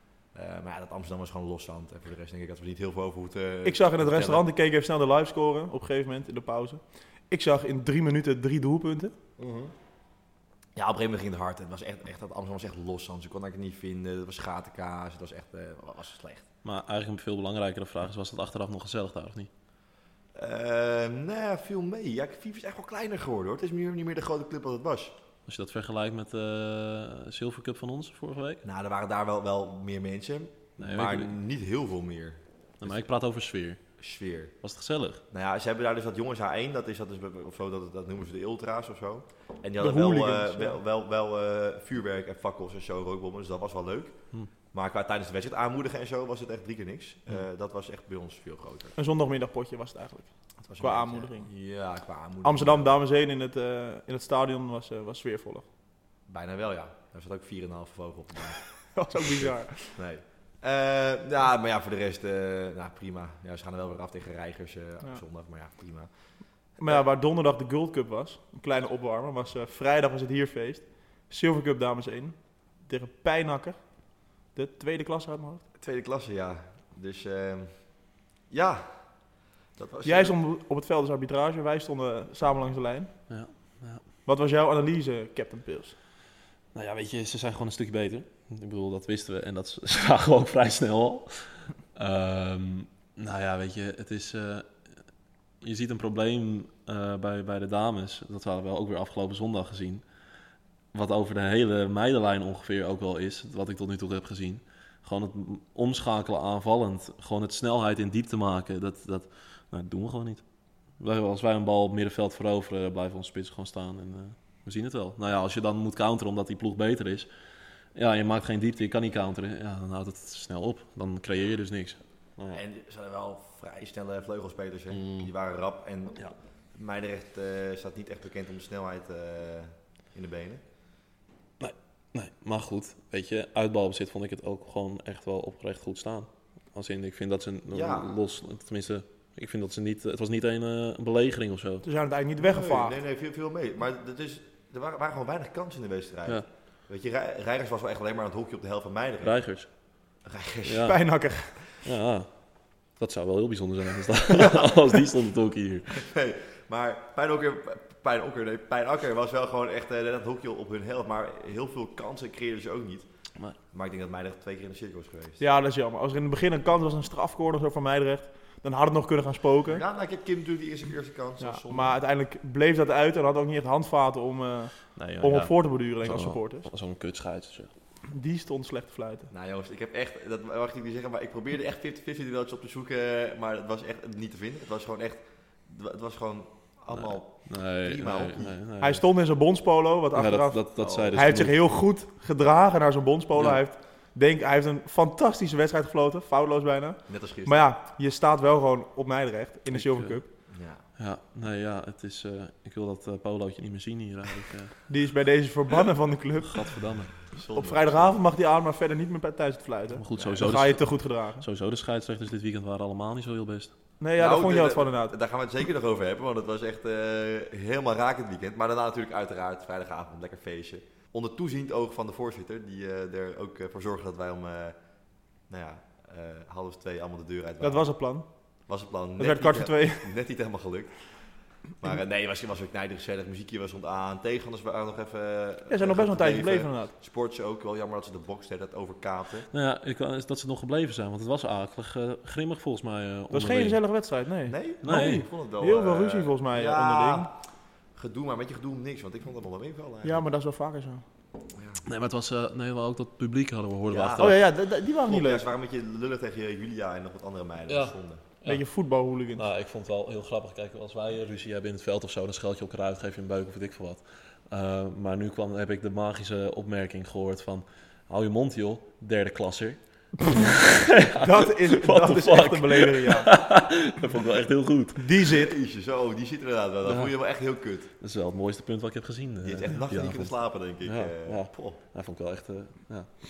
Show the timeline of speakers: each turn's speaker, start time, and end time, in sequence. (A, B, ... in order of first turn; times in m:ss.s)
0:00.3-0:04.5 A
0:03.6-0:09.2 B
0:09.4-0:09.7 A
0:10.8-0:16.5 A
0:16.6-0:19.5 C
0:20.4-0:25.2 A
0:25.5-0:28.6 C
0:28.6-0:33.0 A
0:30.8-0:31.4 C
0:32.8-0:33.8 C
0:34.0-0:34.6 A
0:34.6-0:35.2 C
0:35.3-0:44.2 A
0:39.8-0:40.8 B
0:44.7-0:49.0 A
0:49.0-0:51.5 B
0:50.6-0:52.9 A
0:52.4-0:55.6 B
0:56.3-0:58.6 A
0:58.9-1:00.0 B
0:59.2-1:06.1 A
1:06.8-1:15.6 B
1:15.8-1:17.8 A
1:18.5-1:19.1 A
1:19.8-1:20.4 A
1:20.0-1:23.1 B
1:23.3-1:24.0 C
1:24.3-1:26.0 B
1:26.7-1:34.7 C
1:35.6-1:40.0 C
1:40.9-1:50.4 C
1:51.0-1:57.3 C
1:58.0-2:02.6 C
2:02.5-2:10.6 A
2:04.9-2:05.3 C
2:11.6-2:21.8 C
2:17.7-2:18.1 A
2:21.8-2:23.0 B
2:22.4-2:29.4 A
2:29.2-2:29.7 C
2:30.2-2:30.9 A
2:30.7-2:31.0 C
2:30.8-2:31.5 B
2:31.8-2:32.3 C
2:33.0-2:36.0 C
2:34.4-2:34.7 A
2:36.0-2:43.1 A
2:43.7-2:45.4 A
2:45.4-2:49.8 B
2:49.7-2:52.0 A
2:51.4-2:56.7 B
2:55.0-2:57.7 C
2:58.1-2:59.3 B
2:59.3-3:08.6 A
3:06.9-3:09.0 C
3:08.8-3:20.3 B
3:10.1-3:11.6 C
3:10.8-3:11.2 A
3:13.4-3:13.6 C
3:17.1-3:17.7 A
3:19.7-3:20.2 C
3:20.5-3:20.8 A
3:21.0-3:24.8 C
3:24.9-3:26.6 B
3:26.4-3:27.2 C
3:27.3-3:28.2 A
3:27.6-3:31.4 B
3:30.0-3:33.7 C
3:30.1-3:30.4 A
3:34.0-3:35.1 B
3:34.2-3:44.8 A
3:45.5-3:48.0 A
3:47.6-3:48.3 B
3:48.7-3:59.5 A
3:49.2-3:50.1 B
3:55.7-3:56.9 B
3:59.5-4:03.8 C
4:03.3-4:07.3 B
4:04.5-4:07.4 A
4:04.8-4:05.3 C
4:08.0-4:10.2 A
4:10.0-4:11.0 B
4:11.6-4:11.8 A
4:11.8-4:14.4 C
4:13.9-4:14.4 A
4:14.2-4:15.4 B
4:15.0-4:18.2 A
4:17.7-4:18.6 C
4:18.4-4:19.4 B
4:19.3-4:35.0 C
4:31.2-4:33.3 B
4:35.0-4:35.5 B
4:35.2-4:37.9 A
4:36.8-4:37.1 C
4:38.0-4:43.1 C
4:39.4-4:41.8 A